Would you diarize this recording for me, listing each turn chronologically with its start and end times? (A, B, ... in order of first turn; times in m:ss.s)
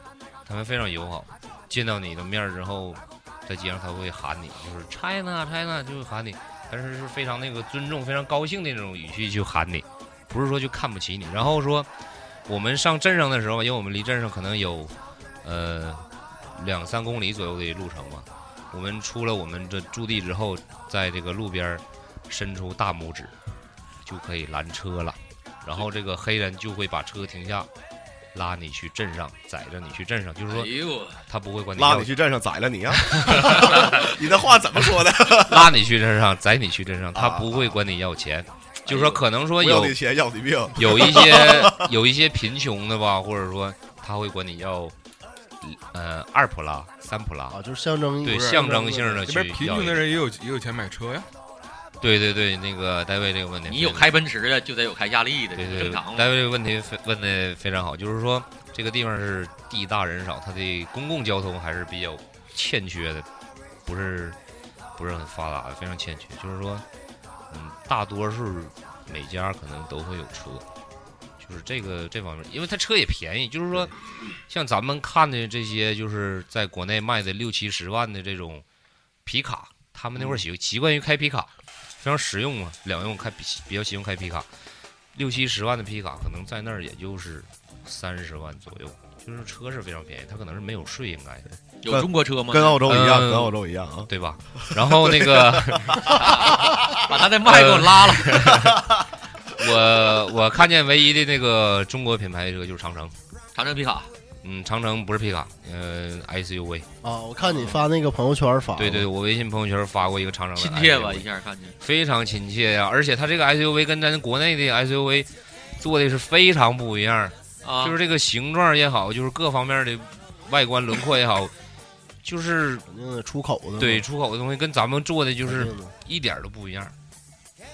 0:00.4-0:11.9 A
0:12.5-0:23.3 A
0:24.0-0:27.7 A
0:28.3-0:30.7 A
0:30.5-0:31.2 B
0:31.3-0:32.1 A
0:31.7-0:35.8 C
0:33.0-0:34.1 A
0:35.4-0:40.0 A
0:37.1-0:37.7 C
0:38.9-0:39.2 B
0:39.6-0:41.9 C
0:40.8-0:44.9 A
0:45.6-0:47.6 A
0:47.5-0:49.3 D
0:48.2-0:50.0 A
0:49.2-0:51.3 E
0:52.0-0:54.1 A
0:53.7-0:56.3 B
0:55.6-1:03.2 A
1:03.8-1:04.4 A
1:05.0-1:06.8 A
1:07.5-1:10.6 A
1:11.4-1:13.9 A
1:14.5-1:18.6 A
1:19.2-1:21.5 A
1:20.2-1:20.4 C
1:22.0-1:24.5 A
1:25.1-1:31.4 A
1:31.8-1:32.8 B
1:31.9-1:34.1 C
1:32.8-1:36.2 A
1:34.7-1:36.9 C
1:36.1-1:38.4 B
1:37.4-1:38.8 A
1:39.5-1:43.1 A
1:43.5-1:44.1 B
1:44.4-1:46.9 A
1:47.0-1:49.1 D
1:47.4-1:47.8 B
1:48.8-1:51.2 A
1:50.6-1:51.8 B
1:51.8-2:01.5 A
1:57.6-1:58.0 B
2:02.2-2:02.8 A
2:02.9-2:04.0 D
2:03.8-2:06.9 A
2:05.4-2:05.9 D